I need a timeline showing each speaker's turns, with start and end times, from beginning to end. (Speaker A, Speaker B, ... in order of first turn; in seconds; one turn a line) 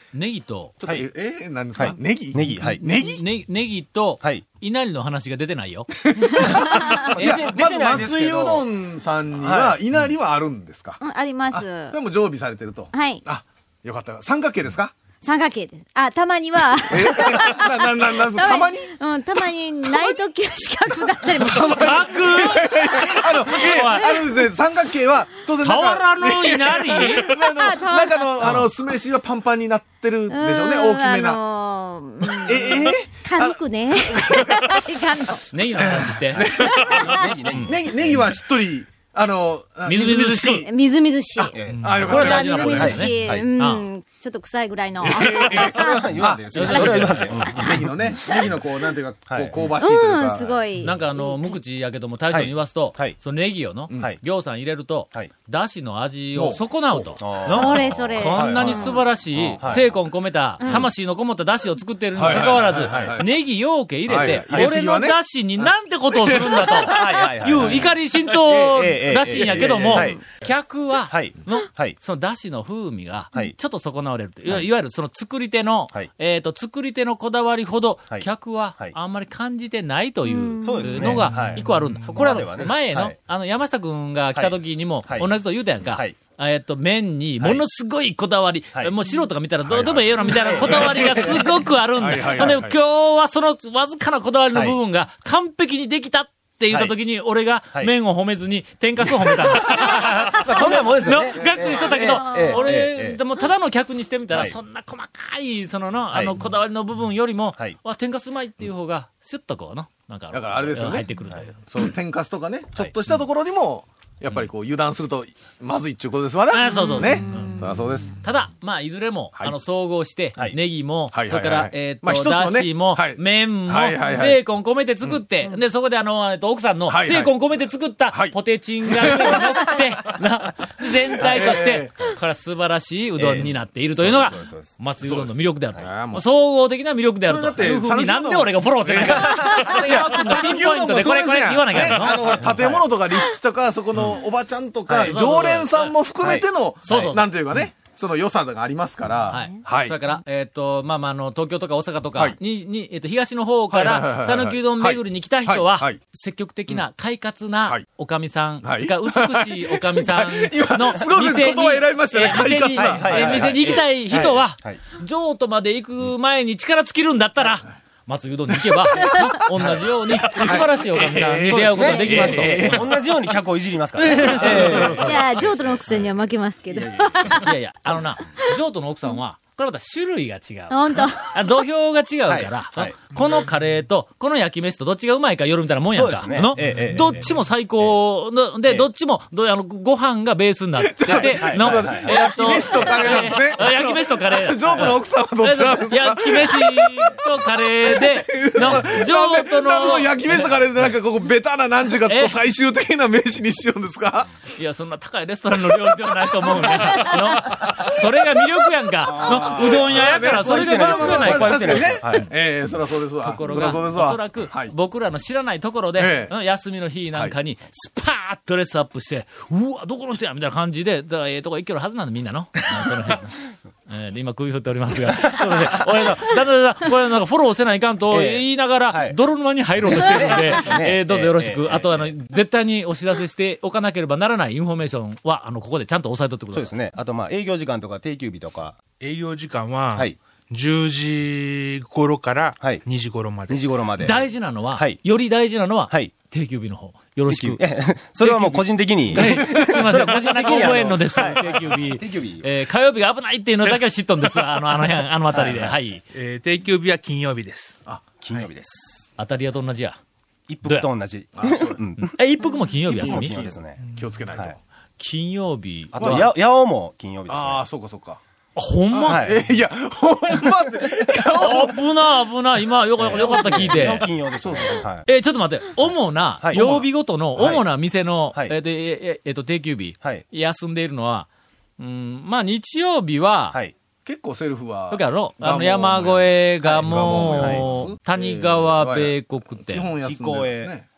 Speaker A: 0.1-0.7
Speaker B: 0.8-3.2
Speaker C: 1.7-2.8
Speaker A: 2.3-5.9
Speaker B: 6.1-14.9
Speaker C: 6.5-8.7
Speaker D: 6.6-6.9
Speaker C: 9.4-9.8
Speaker D: 11.0-12.0
Speaker D: 12.9-13.2
Speaker D: 15.2-22.2
Speaker B: 16.9-18.9
Speaker B: 21.3-31.4
Speaker A: 21.4-22.7
Speaker D: 22.8-24.3
Speaker A: 23.5-24.2
Speaker A: 25.6-27.3
Speaker D: 27.1-28.3
Speaker A: 28.4-28.7
Speaker D: 30.3-35.9
Speaker B: 32.2-34.8
Speaker A: 35.5-36.4
Speaker B: 35.9-40.7
Speaker C: 36.3-38.3
Speaker A: 39.9-40.6
Speaker D: 40.6-41.5
Speaker C: 41.4-42.0
Speaker E: 41.7-42.3
Speaker B: 41.8-43.0
Speaker A: 41.8-43.9
Speaker D: 42.1-47.7
Speaker C: 42.7-43.5
Speaker B: 45.0-47.2
Speaker C: 45.5-48.2
Speaker A: 46.5-47.8
Speaker B: 47.7-50.7
Speaker C: 49.3-49.6
Speaker D: 49.8-51.3
Speaker A: 50.8-111.6
Speaker C: 52.3-53.1
Speaker B: 56.3-57.0
Speaker C: 57.2-59.9
Speaker D: 57.5-59.0
Speaker D: 60.6-60.9
Speaker C: 60.6-60.9
Speaker B: 62.1-63.2
Speaker C: 62.2-63.2
Speaker C: 64.1-64.7
Speaker B: 64.1-65.2
Speaker B: 66.1-66.7
Speaker C: 66.7-67.9
Speaker C: 68.7-70.2
Speaker C: 71.1-72.0
Speaker C: 78.1-79.0
Speaker D: 80.2-81.2
Speaker C: 80.6-83.2
Speaker C: 84.3-86.2
Speaker C: 89.6-91.4
Speaker B: 90.2-91.3
Speaker B: 92.0-92.8
Speaker C: 94.5-94.8
Speaker C: 96.7-97.0
Speaker C: 100.4-103.2
Speaker B: 101.5-102.0
Speaker D: 102.3-102.7
Speaker C: 104.3-104.6
Speaker C: 106.1-106.4
Speaker B: 110.3-111.1
Speaker B: 111.6-118.2
Speaker A: 116.5-117.6
Speaker D: 116.7-117.9
Speaker A: 118.2-142.5
Speaker B: 121.1-124.4
Speaker B: 126.9-127.4
Speaker B: 128.1-129.5
Speaker B: 131.2-132.1
Speaker C: 133.2-134.8
Speaker B: 135.0-136.2
Speaker B: 137.3-149.9
Speaker C: 139.0-139.6
Speaker C: 141.8-142.8
Speaker C: 144.9-145.2
Speaker A: 145.0-146.0
Speaker C: 146.2-147.1
Speaker A: 146.8-147.3
Speaker A: 149.3-172.9
Speaker B: 153.7-156.0
Speaker B: 158.6-164.4
Speaker C: 162.6-164.8
Speaker D: 168.9-169.3
Speaker B: 170.3-172.9
Speaker C: 171.4-175.2
Speaker D: 171.8-172.2
Speaker B: 174.0-175.1
Speaker A: 174.2-175.2
Speaker D: 174.3-177.5
Speaker C: 176.7-177.3
Speaker A: 177.4-201.0
Speaker D: 180.7-181.4
Speaker C: 182.3-182.9
Speaker C: 185.9-187.9
Speaker B: 190.8-197.2
Speaker C: 191.1-193.7
Speaker B: 197.8-204.3
Speaker A: 202.1-202.3
Speaker A: 204.5-212.3
Speaker B: 205.5-207.9
Speaker C: 209.0-212.3
Speaker B: 209.1-214.7
Speaker A: 213.2-236.7
Speaker B: 215.9-216.3
Speaker C: 228.1-229.2
Speaker C: 229.8-232.1
Speaker C: 236.5-238.8
Speaker E: 239.0-243.7
Speaker C: 242.6-242.8
Speaker C: 243.5-245.0
Speaker A: 243.9-247.6
Speaker C: 245.9-246.1
Speaker C: 247.2-252.5
Speaker A: 248.2-256.0
Speaker C: 255.3-255.8
Speaker E: 256.1-257.7
Speaker C: 258.2-259.1
Speaker A: 259.2-260.0
Speaker C: 260.5-262.1
Speaker B: 261.4-261.8
Speaker A: 262.0-263.4
Speaker C: 262.9-263.8
Speaker B: 263.0-264.6
Speaker A: 265.0-266.3
Speaker C: 265.9-267.6
Speaker B: 266.0-266.2
Speaker B: 267.3-268.2
Speaker A: 268.5-269.3
Speaker B: 268.9-271.8
Speaker C: 269.0-269.4
Speaker A: 271.4-274.1
Speaker C: 273.0-275.1
Speaker B: 273.1-274.8
Speaker A: 275.1-281.3
Speaker C: 276.4-277.7
Speaker A: 281.8-283.6
Speaker B: 284.0-290.9
Speaker A: 284.9-289.9
Speaker C: 286.6-287.8
Speaker C: 290.0-290.7